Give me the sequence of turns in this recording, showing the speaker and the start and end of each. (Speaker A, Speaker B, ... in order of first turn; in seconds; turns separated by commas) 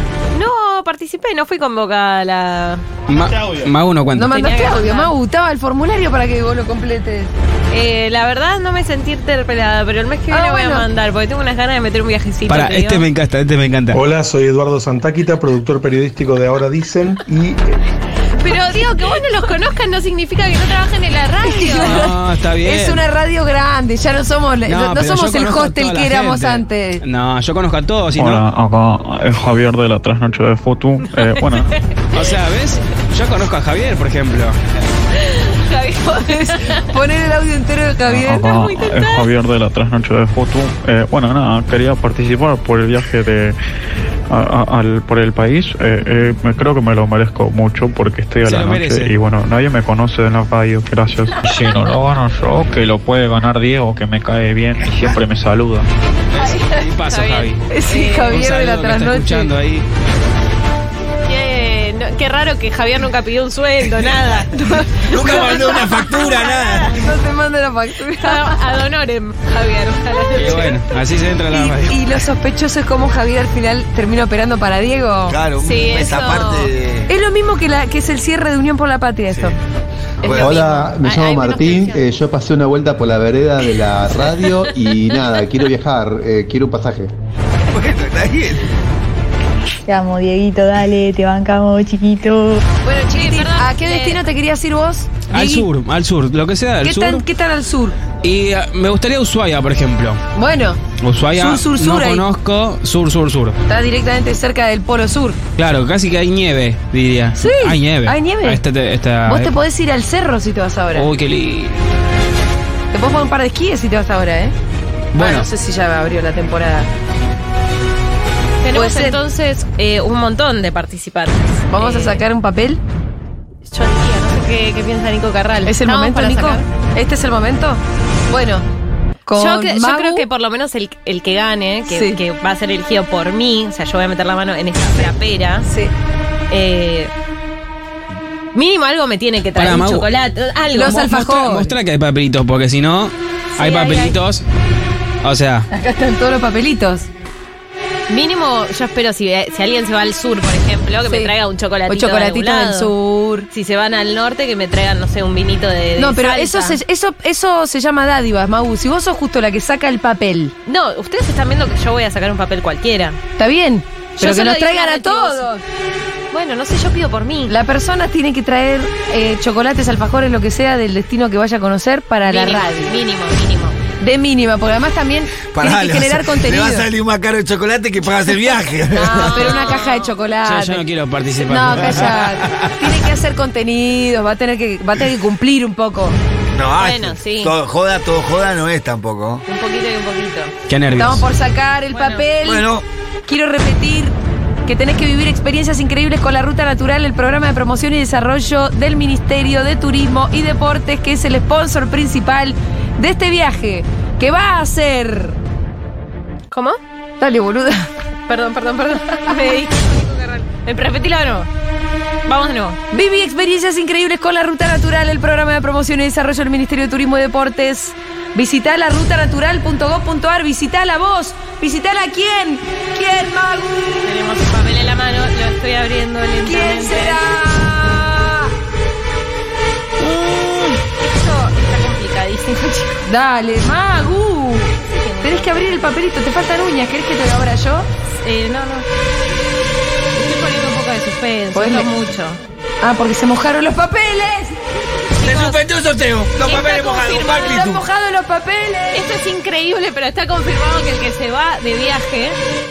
Speaker A: 0.3-2.8, Speaker B: 3.1-4.3, Speaker C: 4.1-7.3, Speaker A: 4.3-5.1, Speaker A: 7.7-13.0, Speaker C: 10.3-10.9, Speaker B: 12.5-14.0, Speaker D: 13.9-17.6, Speaker A: 18.4-22.0, Speaker C: 21.4-27.0, Speaker B: 21.8-23.1, Speaker B: 24.6-28.4, Speaker E: 28.1-31.7, Speaker B: 32.1-34.6, Speaker A: 35.2-36.7, Speaker C: 36.2-38.5, Speaker E: 38.0-43.5, Speaker A: 38.5-39.2, Speaker E: 44.3-55.9, Speaker B: 48.4-49.1, Speaker B: 56.3-57.6, Speaker A: 57.1-58.3, Speaker C: 57.7-59.5, Speaker B: 58.2-59.9, Speaker A: 61.3-64.4, Speaker C: 64.7-66.0, Speaker F: 65.0-67.0, Speaker A: 66.2-66.6, Speaker C: 66.8-68.8, Speaker A: 68.2-70.8, Speaker B: 70.3-72.0, Speaker C: 71.5-75.4, Speaker F: 75.3-77.1, Speaker A: 75.6-76.6, Speaker C: 77.1-79.6, Speaker F: 79.3-79.5, Speaker F: 80.2-80.8, Speaker A: 80.2-82.0, Speaker G: 80.4-87.1, Speaker F: 87.7-88.7, Speaker H: 89.9-92.6, Speaker C: 92.8-95.7, Speaker A: 93.1-94.2, Speaker B: 95.3-97.2, Speaker C: 96.8-98.0, Speaker B: 98.2-100.2, Speaker C: 100.3-100.8, Speaker B: 101.0-103.6, Speaker C: 101.3-102.2, Speaker C: 103.7-105.4, Speaker B: 105.6-109.5, Speaker C: 107.4-108.6, Speaker C: 109.2-111.1, Speaker B: 110.9-111.8, Speaker C: 112.9-114.5, Speaker B: 115.1-115.5, Speaker C: 115.2-116.9, Speaker A: 118.6-122.2, Speaker C: 118.7-119.2, Speaker C: 121.7-122.8, Speaker A: 123.7-126.6, Speaker C: 125.6-128.6, Speaker C: 129.2-130.2, Speaker A: 129.3-135.7, Speaker C: 131.8-132.2, Speaker C: 135.6-135.9, Speaker A: 136.5-137.1, Speaker A: 138.5-141.0, Speaker B: 139.6-140.1, Speaker C: 140.7-141.8, Speaker B: 140.9-144.4, Speaker A: 143.6-144.2, Speaker B: 145.2-145.7, Speaker C: 145.7-147.1, Speaker A: 148.1-152.9, Speaker C: 151.1-151.3, Speaker C: 151.9-153.5, Speaker A: 153.5-156.8, Speaker C: 156.0-160.5, Speaker A: 160.7-163.2, Speaker C: 163.4-165.6, Speaker A: 164.2-165.4, Speaker A: 166.3-167.5, Speaker C: 167.5-173.0, Speaker A: 172.2-173.8, Speaker C: 174.0-176.9, Speaker F: 175.5-179.8, Speaker C: 178.9-180.8, Speaker A: 179.2-180.2, Speaker B: 180.4-182.1, Speaker C: 181.4-186.2, Speaker F: 181.8-182.7, Speaker F: 186.5-189.4, Speaker A: 186.8-187.5, Speaker A: 189.5-190.5, Speaker B: 190.7-191.2, Speaker C: 190.9-192.7, Speaker A: 191.9-192.3, Speaker F: 192.4-192.8, Speaker C: 193.2-205.4, Speaker A: 206.5-206.8, Speaker C: 207.2-207.9, Speaker A: 208.3-211.5, Speaker A: 212.2-212.8, Speaker C: 212.9-224.1, Speaker A: 224.0-227.2, Speaker C: 226.4-228.5, Speaker B: 230.0-230.8, Speaker A: 230.9-233.0, Speaker C: 233.0-237.9, Speaker A: 234.8-235.8, Speaker A: 238.2-238.9, Speaker A: 240.2-242.4, Speaker C: 241.5-241.9, Speaker C: 242.8-244.8, Speaker F: 245.2-247.8, Speaker A: 245.2-245.6, Speaker A: 246.4-247.5, Speaker C: 247.4-249.1, Speaker A: 248.9-252.4